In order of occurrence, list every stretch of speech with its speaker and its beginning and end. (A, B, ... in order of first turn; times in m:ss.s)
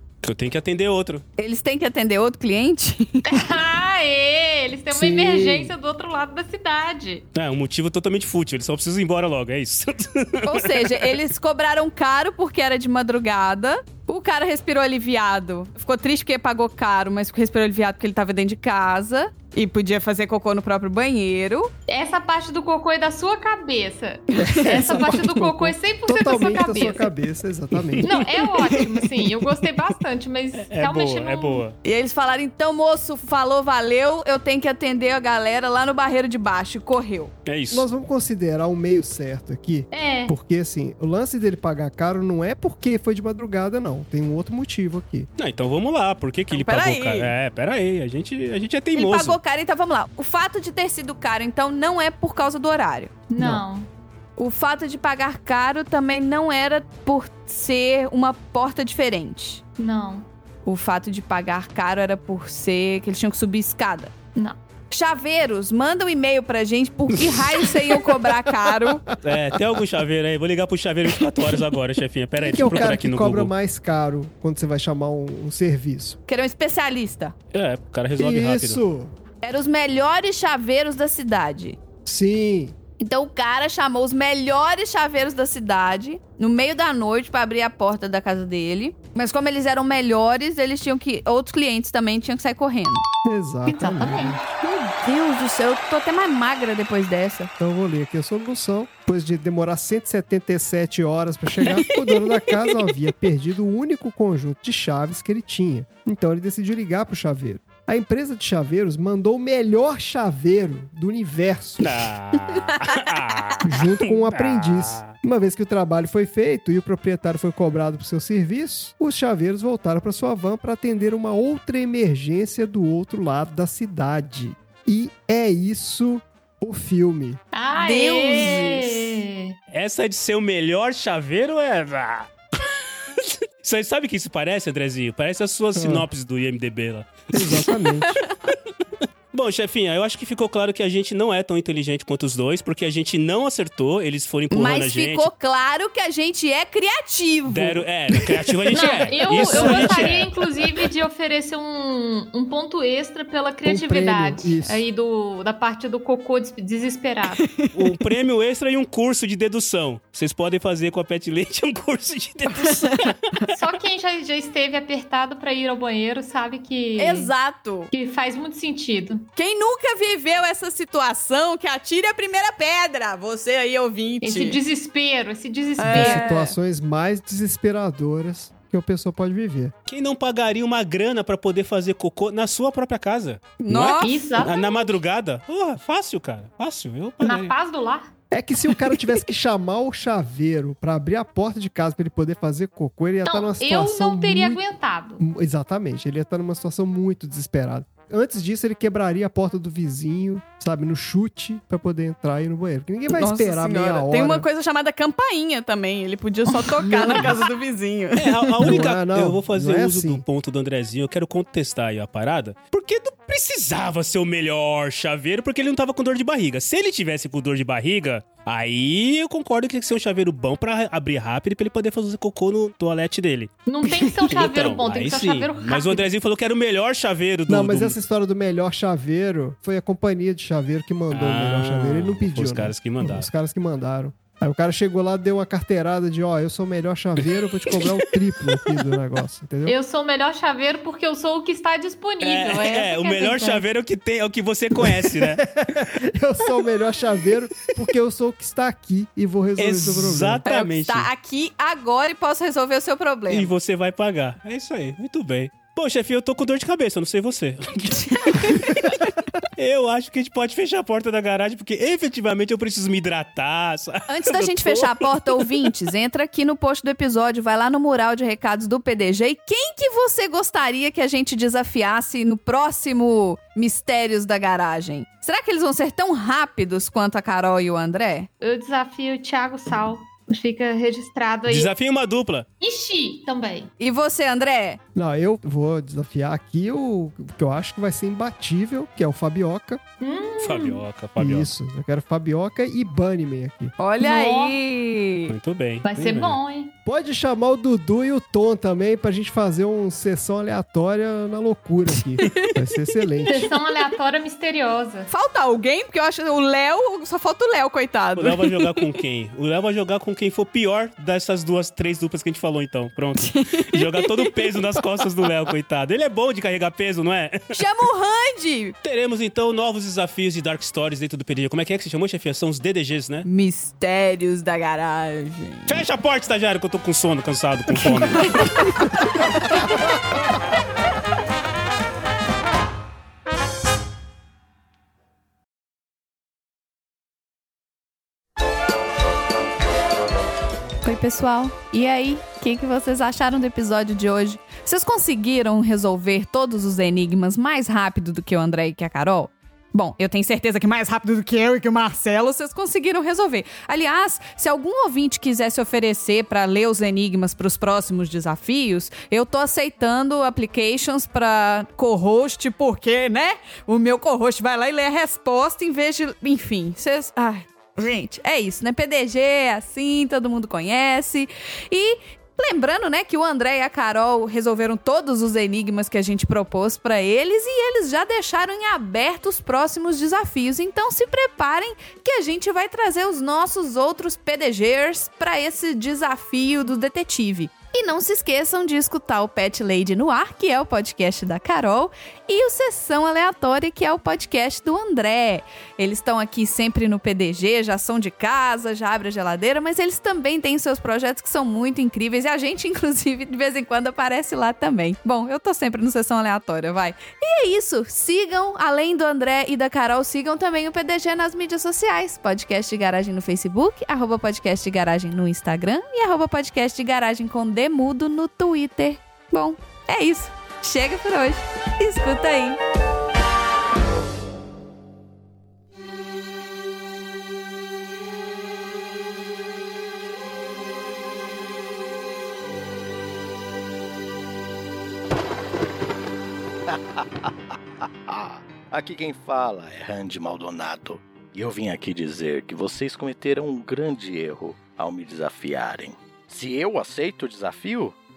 0:00.2-0:01.2 A
0:01.4-0:03.4 B
0:03.2-0:07.2 C
0:04.9-0:05.7 D
0:07.3-0:11.2 A
0:10.4-0:21.7 B
0:21.9-0:27.1 C
0:24.4-0:28.1 D
0:27.9-0:28.2 A
0:28.0-0:31.6 C
0:28.5-0:29.2 B
0:30.6-0:31.8 A
0:31.8-0:37.3 B
0:37.4-0:37.9 A
0:37.7-0:45.3 D
0:39.9-0:40.3 C
0:45.4-0:49.4 A
0:46.5-0:47.3 B
0:48.9-0:53.1 B
0:53.3-0:53.9 C
0:53.4-0:53.6 D
0:54.4-0:59.6 B
0:59.8-1:00.3 C
1:00.6-1:04.1 B
1:04.9-1:09.0 B
1:08.3-1:09.0 D
1:09.2-1:13.5 A
1:12.4-1:16.2 D
1:16.3-1:17.3 B
1:17.5-1:18.8 A
1:18.1-1:19.1 D
1:19.4-1:21.8 B
1:22.0-1:22.8 D
1:23.0-1:33.0 B
1:33.2-1:34.4 D
1:33.6-1:34.5 C
1:34.6-1:37.5 B
1:37.6-1:52.1 D
1:51.8-1:55.1 A
1:52.8-1:53.0 B
1:53.6-2:07.4 D
2:07.5-2:09.6 C
2:07.8-2:09.2 B
2:09.7-2:17.7 A
2:15.7-2:16.1 D
2:17.3-2:18.2 D
2:18.2-2:18.5 B
2:19.3-2:25.3 A
2:24.5-2:29.1 B
2:27.5-2:30.4 A
2:28.7-2:37.5 C
2:29.3-2:30.0 D
2:33.6-2:34.8 D
2:37.4-2:37.9 B
2:37.7-2:43.4 A
2:42.6-2:43.4 B
2:43.5-2:47.3 C
2:47.0-2:47.9 B
2:47.9-2:49.3 C
2:49.4-2:54.6 B
2:54.2-2:56.3 C
2:55.8-2:56.5 B
2:55.8-2:59.7 D
2:59.9-3:07.5 A
3:03.6-3:04.5 B
3:04.0-3:04.9 C
3:07.2-3:08.1 C
3:08.3-3:14.6 D
3:13.2-3:15.2 C
3:15.2-3:24.4 D
3:23.1-3:28.8 B
3:26.9-3:27.3 D
3:28.2-3:48.0 A
3:28.6-3:30.2 D
3:43.6-3:46.0 C
3:47.5-3:59.8 D
3:51.1-3:53.3 A
3:57.3-3:58.0 A
3:59.6-4:03.6 C
4:02.2-4:05.5 A
4:04.8-4:10.4 D
4:09.6-4:11.1 A
4:10.4-4:13.5 B
4:13.3-4:25.7 A
4:18.2-4:19.0 B
4:24.1-4:38.3 B
4:38.4-4:41.7 C
4:41.4-4:42.5 A
4:42.6-4:43.7 C
4:43.8-4:44.8 B
4:44.9-4:49.8 D
4:50.0-4:50.8 C
4:50.4-4:51.5 A
4:51.2-4:53.8 D
4:53.8-4:55.3 B
4:54.0-4:54.6 C
4:55.3-4:56.4 A
4:55.8-4:56.7 C
4:56.8-5:03.5 D
5:02.2-5:02.6 B
5:03.3-5:05.1 C
5:05.1-5:09.0 B
5:08.2-5:17.6 A
5:13.2-5:15.3 B
5:17.5-5:18.7 B
5:18.8-5:23.2 A
5:23.2-5:25.8 B
5:25.7-5:28.9 A
5:27.8-5:28.9 B
5:40.8-7:02.6 B
7:16.7-7:17.3 E
7:18.1-7:28.0 E